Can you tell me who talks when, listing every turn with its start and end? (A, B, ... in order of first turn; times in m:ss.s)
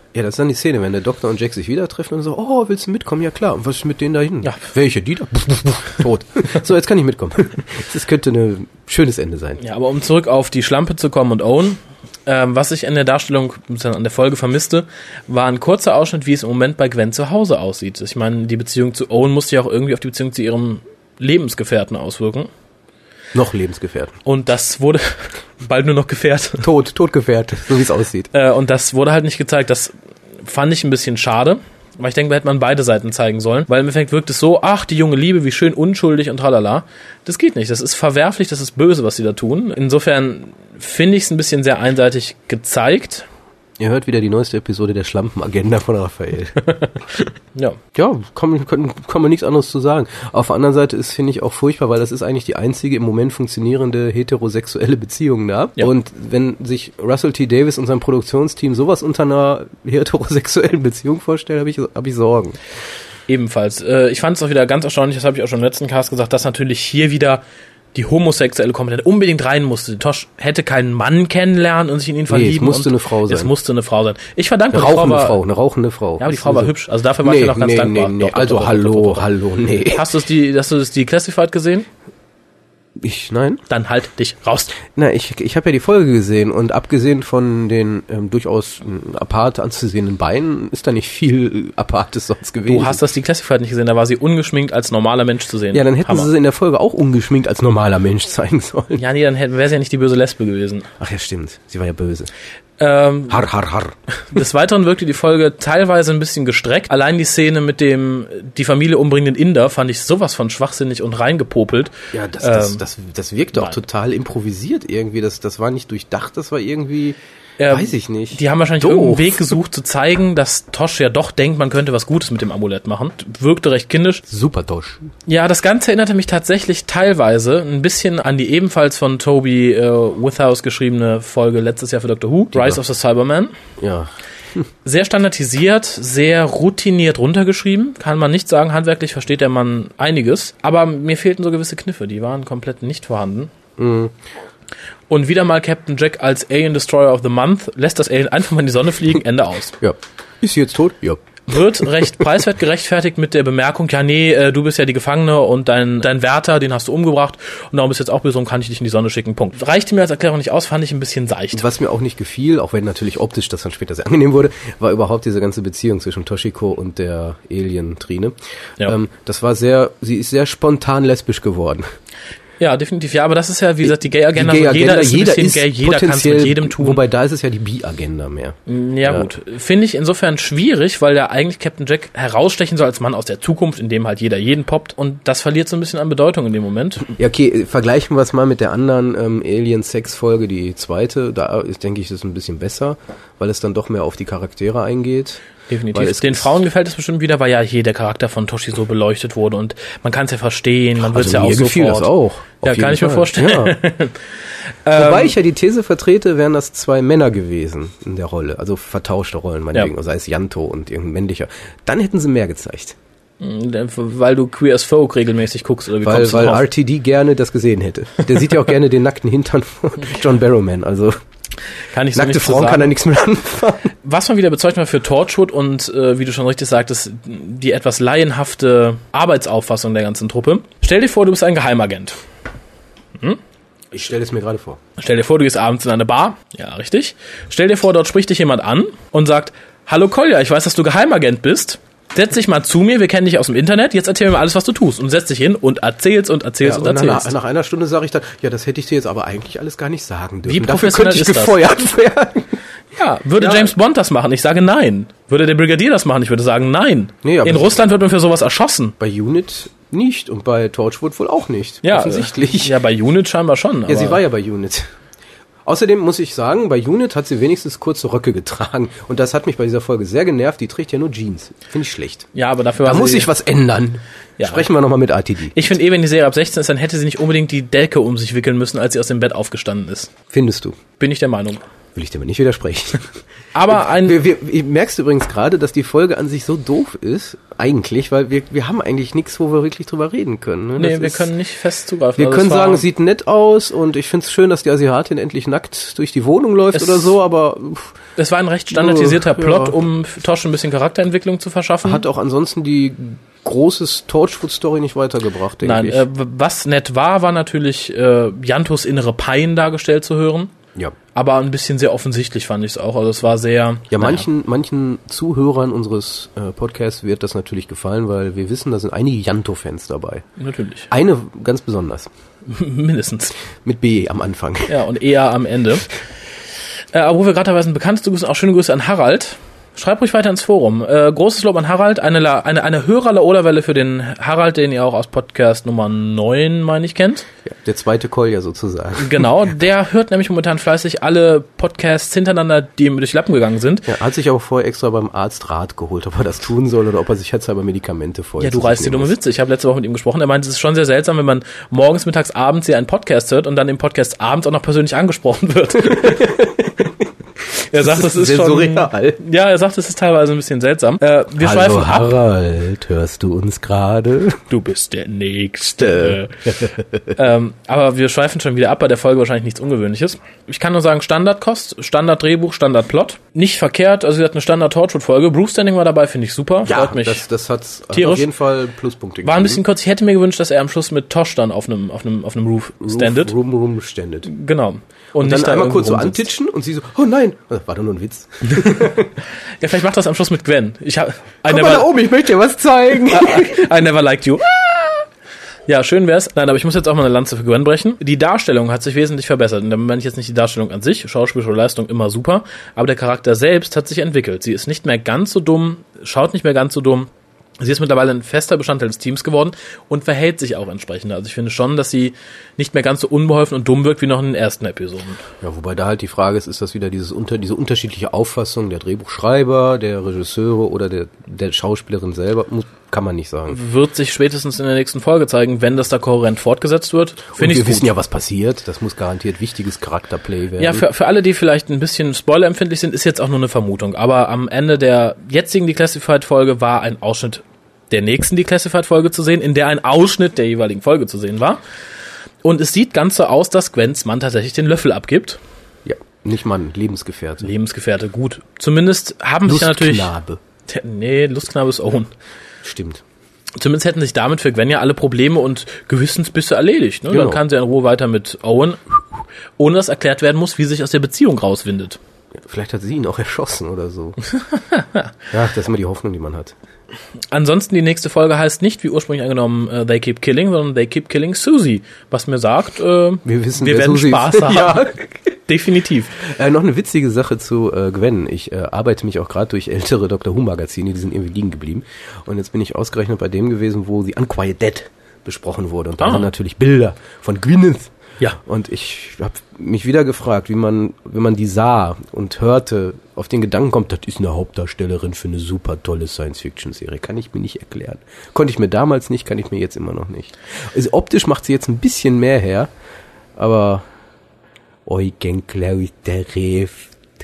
0:00.1-0:09.6 A
0:09.6-0:22.5 B
0:23.3-0:24.2 A
0:24.2-0:26.7 B
0:26.6-0:28.3 A
0:28.3-0:43.2 B
0:43.8-0:46.9 A
0:47.9-1:02.6 A
1:03.3-1:07.4 B
1:07.9-1:15.4 B
1:12.3-1:13.5 A
1:14.7-1:20.0 A
1:16.2-1:21.9 B
1:23.0-1:23.6 A
1:23.7-1:24.8 B
1:24.8-1:33.0 A
1:32.7-1:36.3 B
1:35.7-1:39.0 A
1:39.0-1:40.9 B
1:41.0-1:42.3 A
1:42.8-1:43.4 B
1:43.3-1:44.0 A
1:44.3-1:52.8 B
1:52.1-1:57.2 A
1:57.6-2:04.2 B
1:57.7-1:59.5 A
2:04.3-2:05.1 A
2:05.2-2:13.5 B
2:13.8-2:14.6 A
2:14.8-2:23.5 B
2:23.8-2:24.1 A
2:25.1-2:29.8 B
2:29.8-2:31.4 A
2:31.5-2:41.6 B
2:41.5-2:51.8 A
2:52.6-2:57.0 B
2:53.8-2:59.3 A
2:58.7-3:07.1 B
3:07.1-3:16.6 A
3:15.7-3:22.1 B
3:21.0-3:23.8 A
3:22.6-3:24.3 B
3:24.8-3:25.3 B
3:24.9-3:33.0 A
3:33.4-3:36.6 B
3:36.0-3:41.2 A
3:41.9-3:42.9 B
3:42.1-3:43.9 A
3:44.0-3:52.2 B
3:53.9-3:54.8 A
3:55.0-4:07.3 B
4:06.6-4:12.6 A
4:10.4-4:11.6 B
4:12.9-4:19.0 B
4:13.4-4:13.7 A
4:17.2-4:17.8 A
4:19.0-4:22.8 A
4:21.8-4:24.2 B
4:23.9-4:24.9 A
4:25.6-4:32.3 A
4:32.3-4:33.3 B
4:32.8-4:35.5 A
4:34.4-4:34.6 B
4:35.5-4:40.1 B
4:40.3-4:40.8 A
4:41.0-4:41.6 B
4:41.9-4:43.1 A
4:43.5-4:44.2 B
4:43.7-4:51.3 A
4:50.8-4:52.8 B
4:52.2-4:58.0 A
4:56.7-4:57.1 B
4:58.2-5:02.0 B
4:58.7-4:59.8 A
5:01.8-5:06.0 A
5:05.6-5:10.5 B
5:11.1-5:14.3 B
5:13.9-5:20.2 A
5:20.4-5:20.9 B
5:20.9-5:22.1 A
5:22.4-5:23.4 B
5:23.6-5:24.8 A
5:24.7-5:25.9 B
5:26.9-5:37.2 B
5:37.4-5:39.3 A
5:39.0-5:43.9 B
5:43.9-5:49.1 A
5:48.4-5:56.5 B
5:55.8-5:56.9 A
5:57.5-6:02.1 B
5:57.7-5:59.2 A
6:01.4-6:04.4 A
6:04.5-6:06.5 B
6:05.8-6:07.1 A
6:07.1-6:17.2 B
6:16.6-6:19.6 A
6:17.9-6:18.3 B
6:19.2-6:23.3 B
6:22.8-6:24.3 A
6:24.3-6:26.3 B
6:25.2-6:29.1 A
6:28.6-6:28.9 B
6:29.6-6:31.9 B
6:31.4-6:33.7 A
6:33.1-6:35.1 B
6:35.7-6:55.2 B
6:55.4-7:03.6 A
7:03.5-7:07.9 B
7:07.3-7:10.8 A
7:10.6-7:21.6 B
7:22.4-7:25.4 B
7:25.8-7:27.5 A
7:27.4-7:30.1 B
7:29.5-7:30.4 A
7:30.7-7:32.1 B
7:32.6-7:33.0 A
7:33.6-7:38.8 B
7:37.1-7:37.4 A
7:39.6-7:42.0 B
7:42.4-7:44.2 A
7:44.3-7:45.1 B
7:45.3-7:46.5 A
7:47.3-7:54.9 B
7:53.2-7:55.3 A
7:55.5-7:56.2 B
7:56.2-8:22.7 A
8:06.0-8:06.3 B
8:23.4-8:23.8 A
8:24.8-8:26.9 A